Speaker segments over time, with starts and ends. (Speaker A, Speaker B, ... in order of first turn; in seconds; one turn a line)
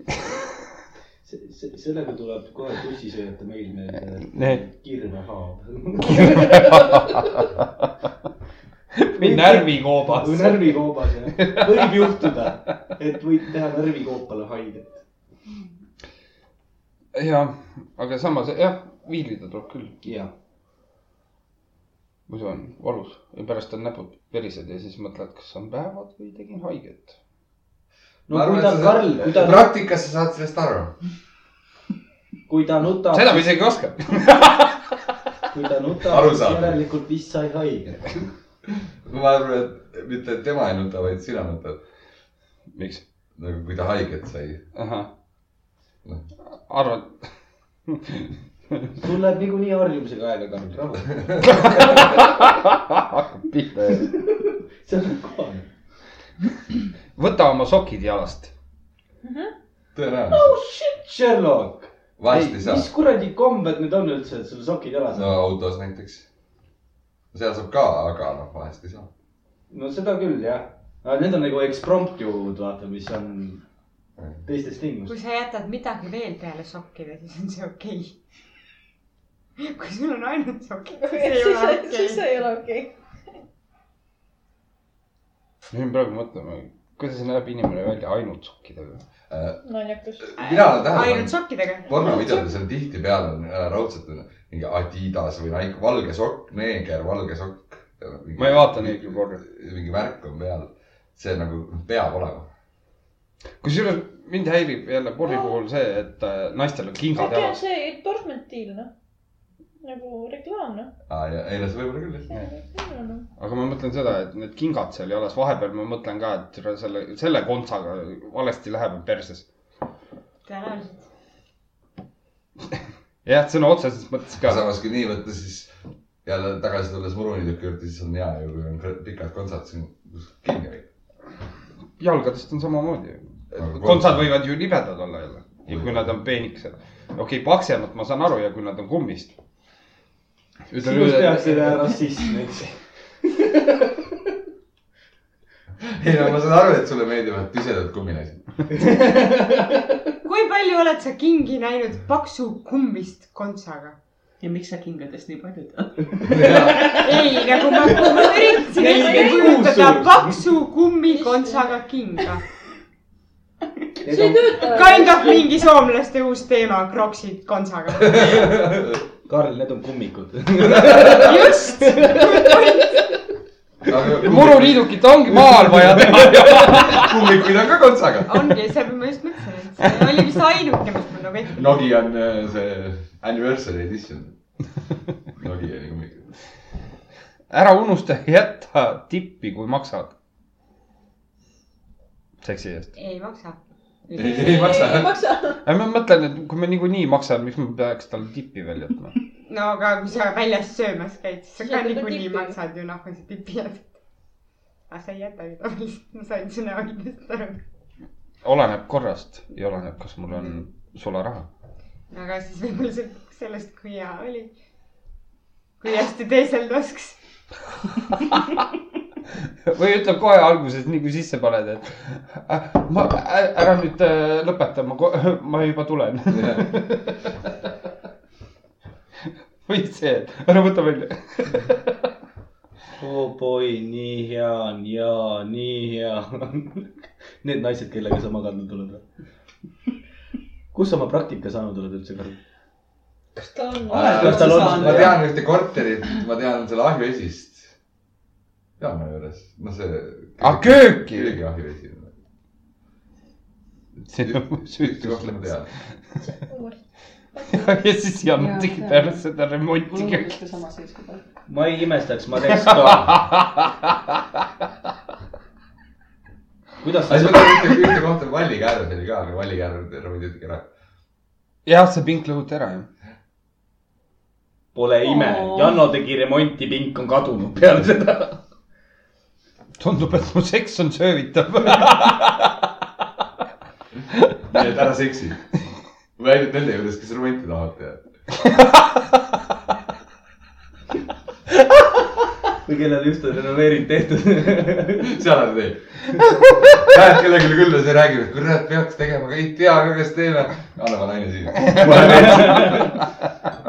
Speaker A: 1.2-7.1
Speaker B: 4.3-4.6
Speaker B: 6.0-7.6
Speaker B: 8.9-12.3
Speaker A: 9.1-15.0
Speaker B: 17.1-20.0
Speaker A: 20.0-20.3
Speaker B: 22.3-27.1
Speaker A: 28.3-29.7
Speaker C: 28.3-30.9
Speaker A: 32.5-33.6
Speaker B: 33.1-34.9
Speaker A: 35.5-38.2
Speaker C: 36.0-36.8
Speaker C: 39.0-41.8
Speaker B: 42.7-43.0
Speaker C: 43.4-44.6
Speaker B: 44.8-45.1
Speaker B: 46.5-47.2
Speaker B: 47.9-48.3
Speaker A: 49.0-51.8
Speaker C: 51.1-51.9
Speaker B: 51.4-54.1
Speaker A: 53.9-55.6
Speaker B: 57.1-58.5
Speaker D: 59.2-59.5
Speaker C: 59.9-60.6
Speaker A: 60.3-65.3
Speaker C: 62.2-62.9
Speaker C: 65.1-66.2
Speaker C: 67.3-69.1
Speaker A: 69.7-73.6
Speaker A: 74.4-75.1
Speaker E: 75.1-78.2
Speaker E: 79.6-82.2
Speaker D: 80.9-83.0
Speaker B: 85.7-89.0
Speaker C: 89.3-89.6
Speaker D: 89.6-90.6
Speaker C: 90.2-91.3
Speaker E: 90.4-92.1
Speaker C: 91.8-102.5
Speaker B: 98.3-99.4
Speaker B: 103.6-107.6
Speaker D: 107.1-108.9
Speaker D: 109.8-110.9
Speaker C: 111.1-112.3
Speaker D: 112.3-113.2
Speaker B: 113.4-119.4
Speaker E: 120.5-121.0
Speaker B: 123.2-124.7
Speaker C: 124.4-125.7
Speaker C: 126.2-130.9
Speaker B: 132.0-139.3
Speaker C: 133.5-134.2
Speaker C: 135.7-136.0
Speaker B: 140.7-141.9
Speaker A: 140.8-144.1
Speaker C: 145.8-148.4
Speaker A: 148.7-150.0
Speaker E: 150.2-153.9
Speaker F: 154.4-156.1
Speaker A: 156.2-160.5
Speaker C: 156.2-157.1
Speaker E: 156.8-162.4
Speaker D: 158.7-159.7
Speaker D: 161.1-161.8
Speaker A: 164.0-165.0
Speaker D: 164.0-165.5
Speaker E: 164.5-168.6
Speaker C: 168.0-169.0
Speaker A: 169.3-173.0
Speaker C: 170.7-171.3
Speaker E: 171.0-172.8
Speaker C: 173.8-174.9
Speaker B: 174.2-177.2
Speaker A: 175.3-176.9
Speaker C: 176.6-178.5
Speaker E: 178.2-181.8
Speaker C: 181.5-184.3
Speaker C: 185.4-186.3
Speaker B: 187.5-190.1
Speaker B: 192.4-192.9
Speaker E: 192.9-193.6
Speaker D: 194.1-195.6
Speaker C: 194.1-195.2
Speaker B: 195.6-199.1
Speaker E: 199.5-203.9
Speaker D: 201.6-202.6
Speaker E: 204.9-207.6
Speaker B: 208.4-211.5
Speaker E: 212.1-214.5
Speaker E: 215.8-217.2
Speaker B: 219.7-227.2
Speaker C: 226.3-226.7
Speaker B: 229.7-231.9
Speaker A: 233.0-236.9
Speaker A: 237.4-239.0
Speaker A: 240.7-242.4
Speaker D: 243.4-244.7
Speaker F: 243.9-245.2
Speaker C: 243.9-247.7
Speaker A: 243.9-245.2
Speaker C: 248.8-252.1
Speaker B: 250.4-251.4
Speaker B: 254.1-255.6
Speaker C: 254.2-255.7
Speaker D: 256.4-256.8
Speaker D: 257.3-257.8
Speaker B: 257.5-260.4
Speaker F: 258.4-259.2
Speaker F: 259.9-261.2
Speaker A: 261.5-263.2
Speaker B: 262.5-264.1
Speaker A: 266.8-267.9
Speaker C: 267.1-270.6
Speaker B: 271.6-272.9
Speaker A: 274.7-278.4
Speaker D: 275.0-275.8
Speaker B: 279.8-282.6
Speaker C: 284.5-285.4
Speaker C: 286.2-288.0
Speaker A: 292.6-295.2
Speaker C: 295.0-302.9
Speaker B: 301.6-302.8
Speaker A: 301.8-302.9